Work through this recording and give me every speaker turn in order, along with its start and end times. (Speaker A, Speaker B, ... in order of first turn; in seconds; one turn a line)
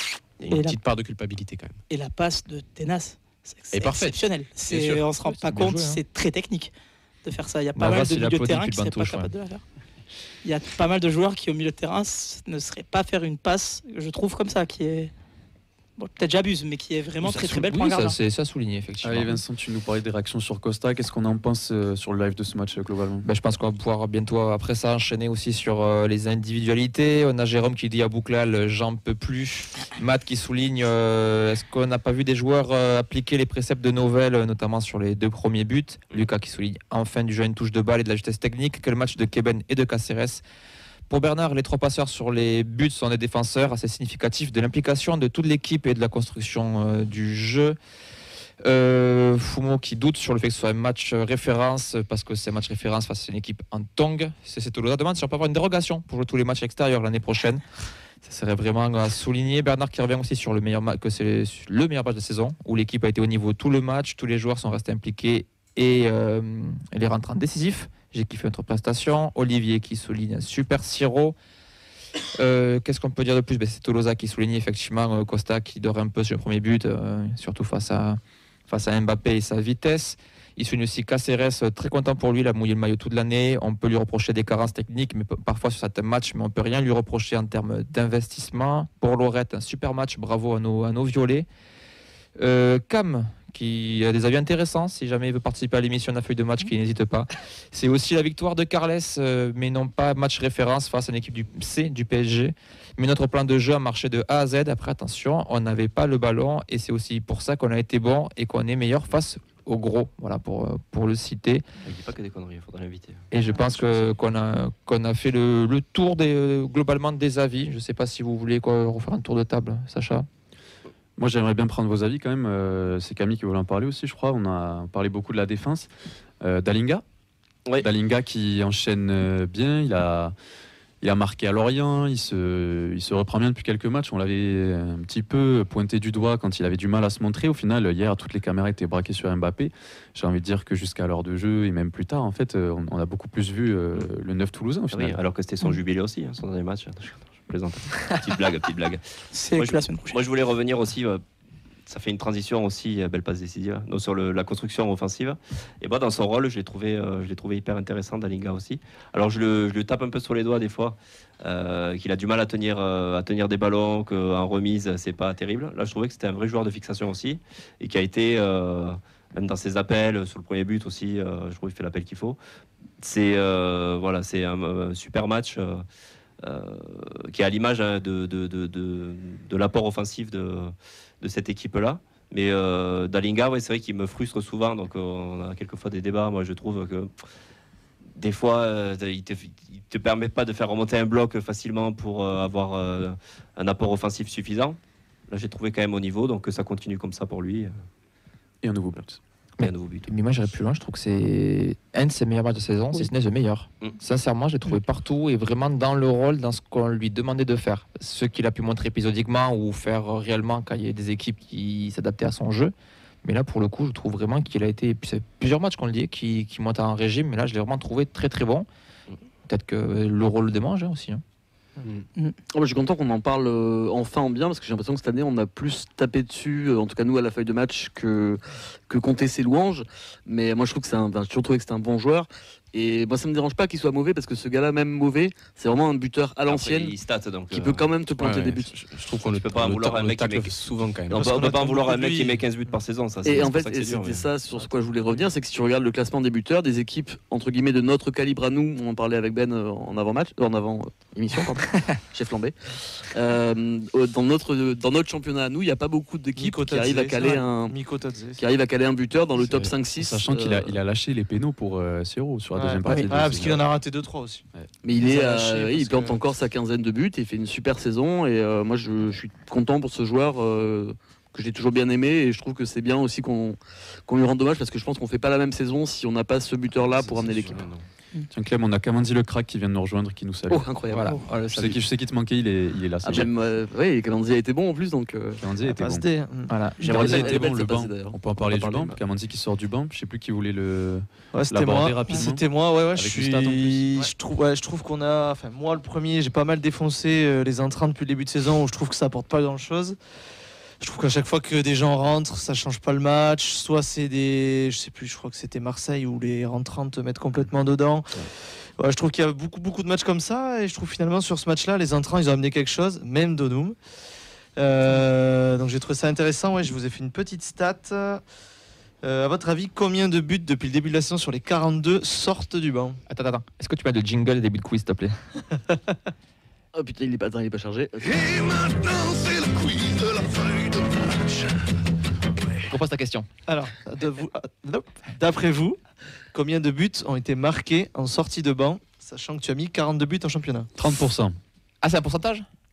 Speaker A: 0.4-1.8
Speaker B: 0.5-0.8
Speaker B: 1.9-6.7
Speaker A: 3.7-5.7
Speaker C: 5.5-6.0
Speaker B: 7.2-9.6
Speaker C: 7.8-9.3
Speaker B: 10.4-15.1
Speaker B: 16.0-18.1
Speaker C: 17.2-19.4
Speaker D: 19.0-23.2
Speaker C: 23.2-40.4
Speaker C: 41.1-47.8
Speaker C: 48.6-57.6
Speaker C: 58.2-71.3
Speaker C: 72.3-91.5
Speaker C: 92.4-111.6
Speaker E: 111.8-114.0
Speaker C: 113.3-120.3
Speaker D: 121.2-127.0
Speaker D: 127.8-130.3
Speaker D: 131.0-145.2
Speaker E: 144.9-149.0
Speaker B: 149.3-150.2
Speaker E: 149.5-151.2
Speaker E: 151.9-172.4
Speaker E: 173.0-175.8
Speaker E: 176.4-187.1
Speaker E: 188.2-194.8
Speaker E: 195.3-197.7
Speaker D: 198.6-199.2
Speaker C: 199.6-212.7
Speaker E: 199.6-200.1
Speaker C: 213.2-218.7
Speaker C: 219.5-221.2
Speaker F: 222.5-236.9
Speaker E: 236.5-237.9
Speaker F: 237.5-238.7
Speaker D: 238.2-239.3
Speaker A: 238.8-241.6
Speaker E: 239.2-240.6
Speaker E: 241.1-244.3
Speaker F: 243.2-252.5
Speaker F: 253.1-257.8
Speaker G: 256.4-258.4
Speaker F: 258.4-260.8
Speaker D: 259.5-263.7
Speaker G: 262.6-266.2
Speaker F: 264.8-277.7
Speaker A: 276.7-277.8
Speaker D: 278.3-280.7
Speaker F: 280.5-281.2
Speaker C: 280.9-281.8
Speaker D: 281.5-283.3
Speaker F: 283.0-285.4
Speaker D: 285.4-286.1
Speaker G: 285.6-286.6
Speaker C: 286.5-286.8
Speaker D: 286.8-294.1
Speaker F: 286.8-289.0
Speaker E: 286.8-287.3
Speaker G: 291.3-300.0
Speaker G: 300.8-313.8
Speaker G: 314.6-318.2
Speaker G: 319.0-323.0
Speaker C: 323.1-325.1
Speaker F: 326.7-331.0
Speaker C: 332.6-333.3
Speaker G: 333.5-335.8
Speaker G: 336.3-340.7
Speaker D: 340.8-341.4
Speaker C: 341.8-342.4